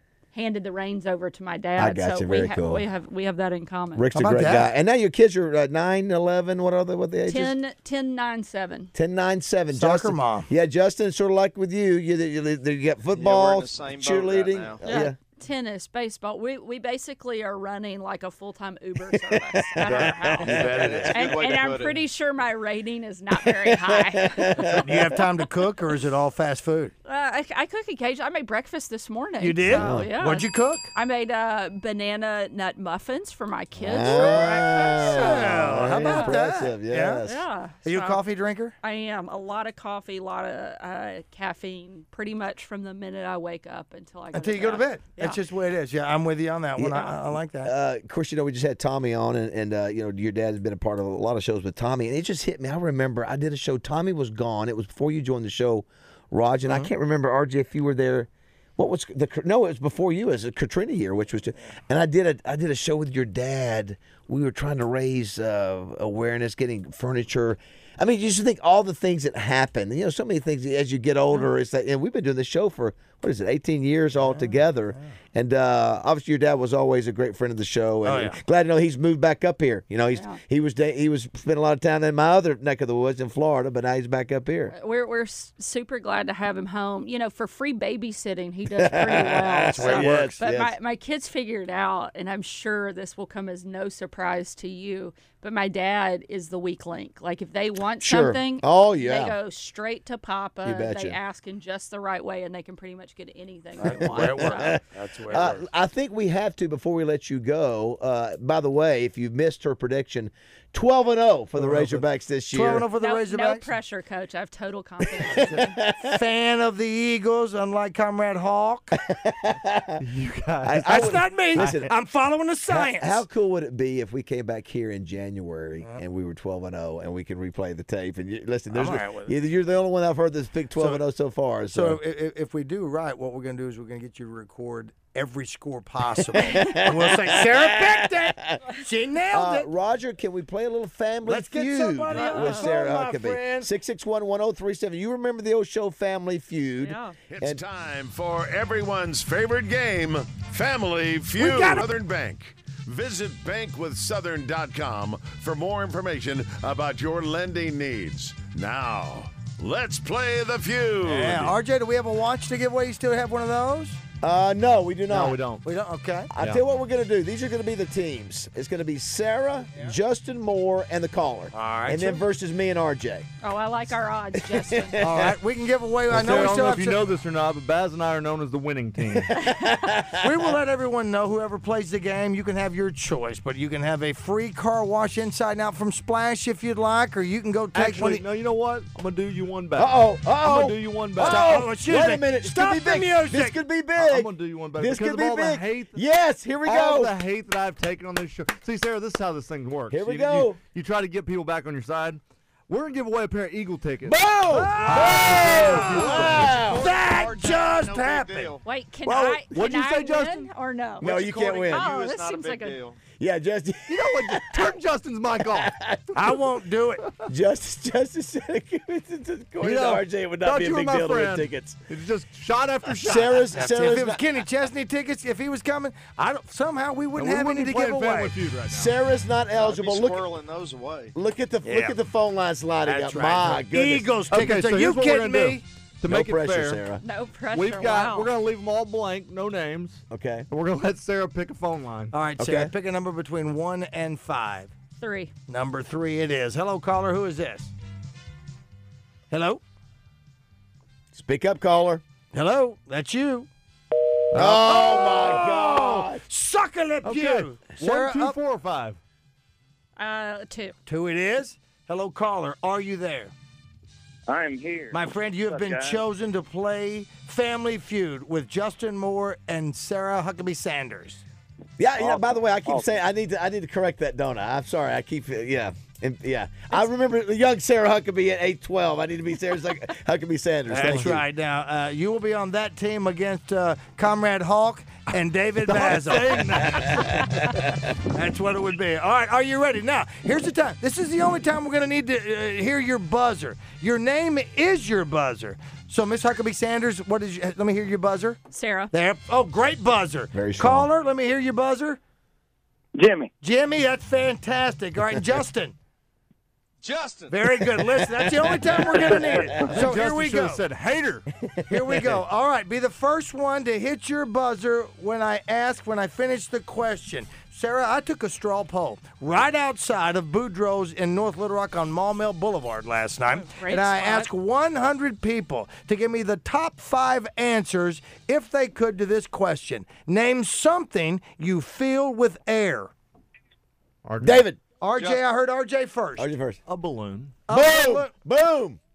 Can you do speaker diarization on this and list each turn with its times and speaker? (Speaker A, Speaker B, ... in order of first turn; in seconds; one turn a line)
Speaker A: 0.3-4.1
Speaker B: 1.8-2.9
Speaker B: 4.0-7.5
Speaker C: 4.2-4.7
Speaker A: 7.3-8.9
Speaker B: 8.9-15.2
Speaker C: 9.7-10.5
Speaker D: 13.1-14.8
Speaker A: 14.8-25.0
Speaker B: 19.1-20.9
Speaker C: 19.9-21.2
Speaker D: 20.4-22.0
Speaker B: 23.3-25.1
Speaker C: 24.8-26.9
Speaker A: 27.0-36.4
Speaker C: 29.4-30.9
Speaker B: 29.7-30.1
Speaker B: 33.8-37.4
Speaker C: 34.1-37.2
Speaker A: 37.2-38.2
Speaker C: 37.9-38.7
Speaker A: 38.8-45.4
Speaker C: 44.3-47.7
Speaker B: 46.8-84.7
Speaker C: 74.2-75.1
Speaker C: 78.0-78.4
Speaker A: 84.7-104.8
Speaker B: 88.8-90.8
Speaker C: 89.8-90.3
Speaker B: 98.0-99.4
Speaker B: 100.7-101.2
Speaker C: 103.8-105.7
Speaker B: 103.9-112.9
Speaker C: 111.6-113.7
Speaker A: 113.0-115.8
Speaker B: 115.2-116.1
Speaker C: 115.3-118.9
Speaker B: 119.0-120.0
Speaker E: 120.0-121.0
Speaker B: 120.6-121.9
Speaker C: 120.9-123.2
Speaker E: 121.6-121.9
Speaker B: 122.7-132.0
Speaker C: 128.7-129.3
Speaker C: 130.8-131.0
Speaker C: 131.7-139.7
Speaker B: 136.4-138.6
Speaker A: 136.6-136.8
Speaker B: 139.3-147.6
Speaker C: 141.3-143.7
Speaker A: 142.1-142.7
Speaker A: 146.8-147.2
Speaker F: 147.3-161.6
Speaker C: 151.4-151.9
Speaker C: 161.0-164.0
Speaker B: 164.2-165.4
Speaker E: 165.1-165.7
Speaker C: 165.6-166.3
Speaker B: 166.3-173.3
Speaker C: 171.5-172.2
Speaker A: 173.4-175.0
Speaker B: 174.4-175.3
Speaker C: 175.0-177.1
Speaker E: 176.1-179.3
Speaker B: 179.1-180.2
Speaker C: 180.2-188.2
Speaker E: 187.8-191.6
Speaker B: 189.8-197.1
Speaker C: 191.2-193.6
Speaker E: 194.0-196.1
Speaker E: 196.7-206.9
Speaker B: 199.9-200.6
Speaker B: 204.1-206.9
Speaker C: 204.5-208.6
Speaker D: 206.8-208.6
Speaker A: 208.6-211.1
Speaker E: 209.1-210.5
Speaker B: 211.0-211.9
Speaker D: 211.0-213.0
Speaker A: 211.7-212.8
Speaker B: 213.2-214.8
Speaker E: 213.9-215.7
Speaker B: 215.4-216.1
Speaker C: 216.1-217.0
Speaker E: 217.0-217.2
Speaker B: 217.3-221.8
Speaker E: 219.6-223.6
Speaker B: 223.0-224.2
Speaker C: 223.5-228.4
Speaker E: 227.2-228.9
Speaker B: 228.7-230.2
Speaker D: 229.5-231.2
Speaker B: 231.2-234.1
Speaker C: 231.6-232.0
Speaker C: 232.8-235.6
Speaker E: 234.3-236.8
Speaker B: 236.1-237.0
Speaker A: 237.0-238.3
Speaker E: 237.5-242.2
Speaker B: 240.1-240.5
Speaker C: 242.1-244.7
Speaker B: 242.4-242.7
Speaker A: 245.0-245.3
Speaker C: 245.5-247.7
Speaker C: 249.3-249.6
Speaker B: 251.1-252.0
Speaker C: 252.3-253.5
Speaker E: 254.3-255.3
Speaker B: 254.3-256.2
Speaker C: 254.6-258.4
Speaker E: 257.0-259.0
Speaker A: 260.0-260.8
Speaker C: 260.9-263.3
Speaker G: 264.3-266.0
Speaker C: 264.9-271.2
Speaker B: 271.8-281.2
Speaker G: 272.0-273.0
Speaker C: 280.7-286.9
Speaker E: 285.6-287.5
Speaker B: 286.6-287.1
Speaker C: 288.1-298.4
Speaker A: 298.5-298.9
Speaker C: 298.9-302.0
Speaker B: 300.3-300.9
Speaker G: 303.0-303.3
Speaker C: 303.4-305.8
Speaker D: 306.8-307.4
Speaker C: 307.3-310.6
Speaker B: 307.8-308.5
Speaker G: 308.8-309.6
Speaker B: 309.3-309.6
Speaker E: 309.6-311.2
Speaker B: 311.4-312.2
Speaker C: 311.7-332.9
Speaker A: 323.3-324.3
Speaker E: 334.0-334.5
Speaker B: 334.2-334.6
Speaker C: 334.8-336.3
Speaker D: 334.9-335.2
Speaker B: 336.2-336.6
Speaker E: 336.7-337.4
Speaker C: 337.5-338.1
Speaker B: 337.5-338.8